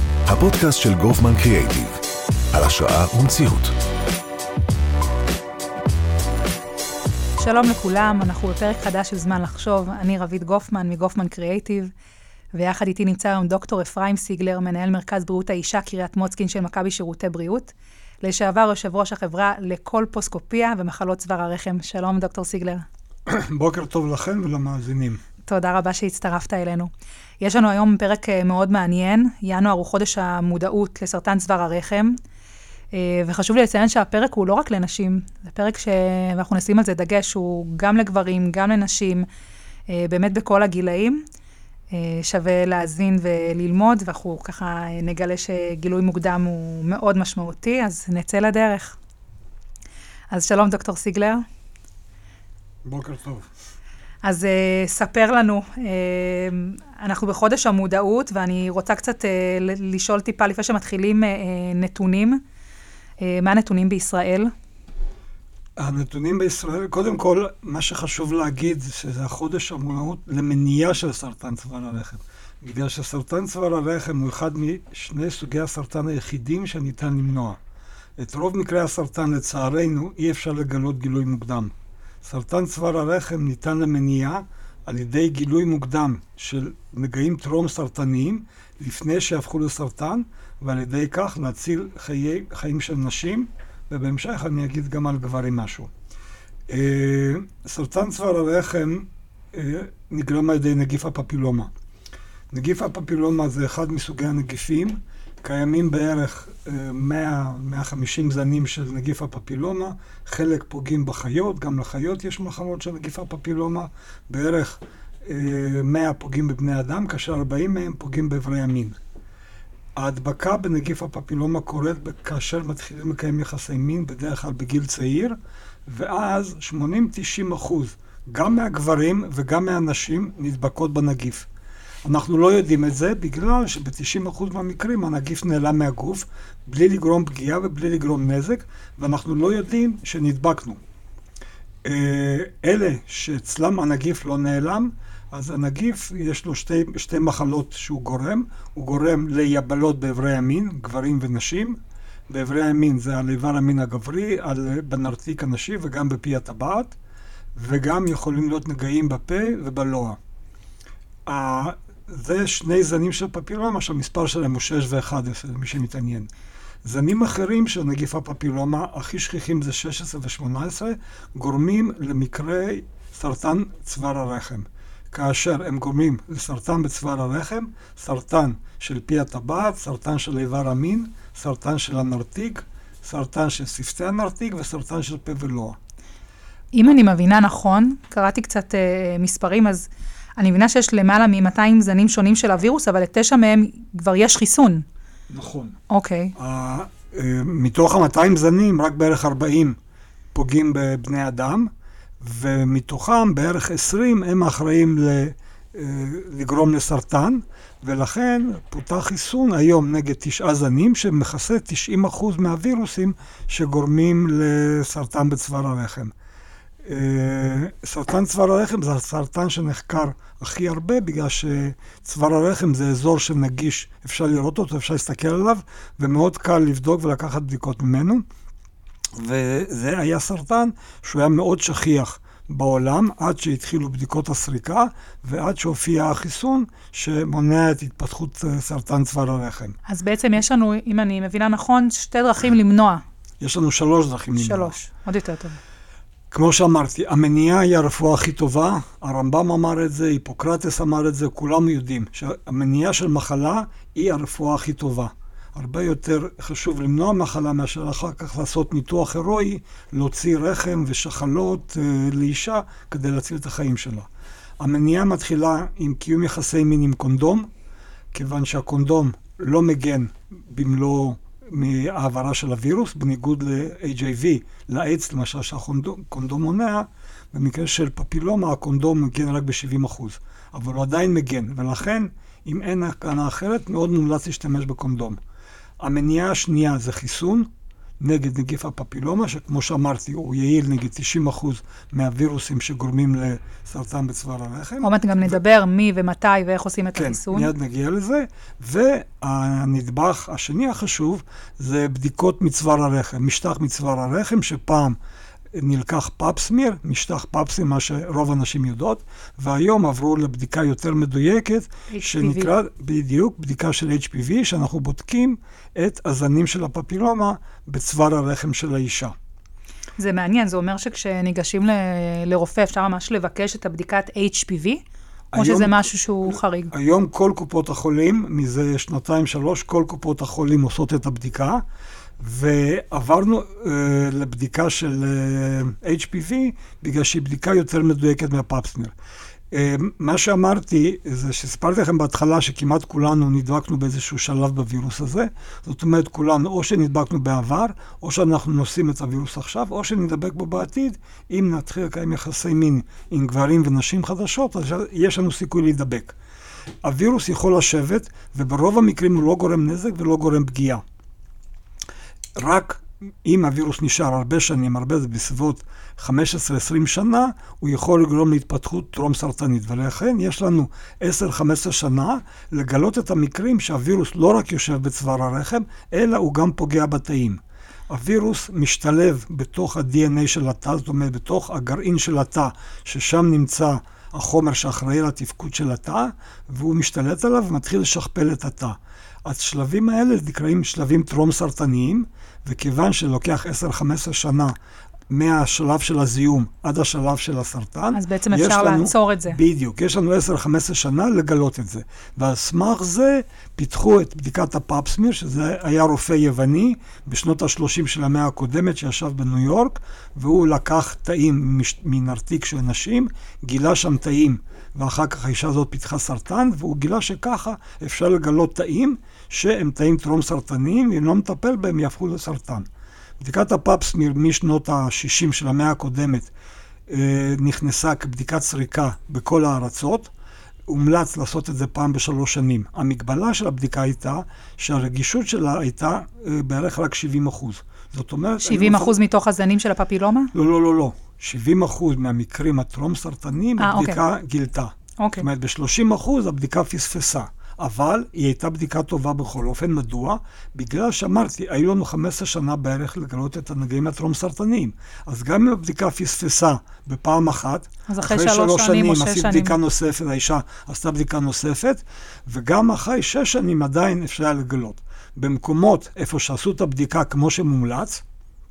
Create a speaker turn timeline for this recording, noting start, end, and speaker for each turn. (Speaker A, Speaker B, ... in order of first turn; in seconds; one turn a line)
Speaker A: 0.3-2.0
Speaker A: 2.5-3.8
Speaker B: 7.4-11.9
Speaker B: 12.5-22.9
Speaker C: 23.3-25.2
Speaker B: 25.5-26.9
Speaker B: 27.4-32.2
Speaker B: 32.9-39.3
Speaker B: 39.9-41.2
Speaker B: 41.9-49.0
Speaker B: 50.3-51.4
Speaker C: 52.9-53.5
Speaker B: 54.2-62.4
Speaker B: 63.2-64.5
Speaker C: 65.8-77.6
Speaker C: 78.2-95.9
Speaker C: 96.7-101.7
Speaker C: 102.5-119.0
Speaker C: 120.0-125.4
Speaker C: 125.9-131.5
Speaker C: 132.1-140.8
Speaker C: 141.8-156.9
Speaker C: 157.6-160.2
Speaker C: 161.3-166.3
Speaker C: 166.8-185.8
Speaker B: 186.7-194.8
Speaker C: 195.3-195.8
Speaker B: 195.9-196.3
Speaker C: 196.4-199.8
Speaker C: 200.3-201.7
Speaker C: 202.2-216.1
Speaker C: 216.8-228.2
Speaker C: 229.1-239.8
Speaker B: 239.9-243.0
Speaker C: 243.4-244.8
Speaker B: 244.4-245.6
Speaker C: 246.3-264.1
Speaker C: 264.6-267.5
Speaker C: 268.1-285.2
Speaker C: 285.8-294.9
Speaker B: 294.8-297.5
Speaker C: 296.9-305.0
Speaker C: 305.5-319.1
Speaker B: 311.9-312.5
Speaker B: 320.0-324.8
Speaker C: 325.3-331.6
Speaker B: 325.4-326.7
Speaker C: 332.2-338.9
Speaker C: 339.5-356.2
Speaker C: 356.8-360.8
Speaker C: 362.4-394.6
Speaker C: 395.1-422.7
Speaker B: 397.9-399.4
Speaker C: 423.2-426.3
Speaker C: 426.9-430.1
Speaker C: 430.7-438.9
Speaker B: 438.4-440.3
Speaker C: 440.3-468.0
Speaker B: 443.6-444.0
Speaker B: 445.0-445.3
Speaker B: 457.9-459.6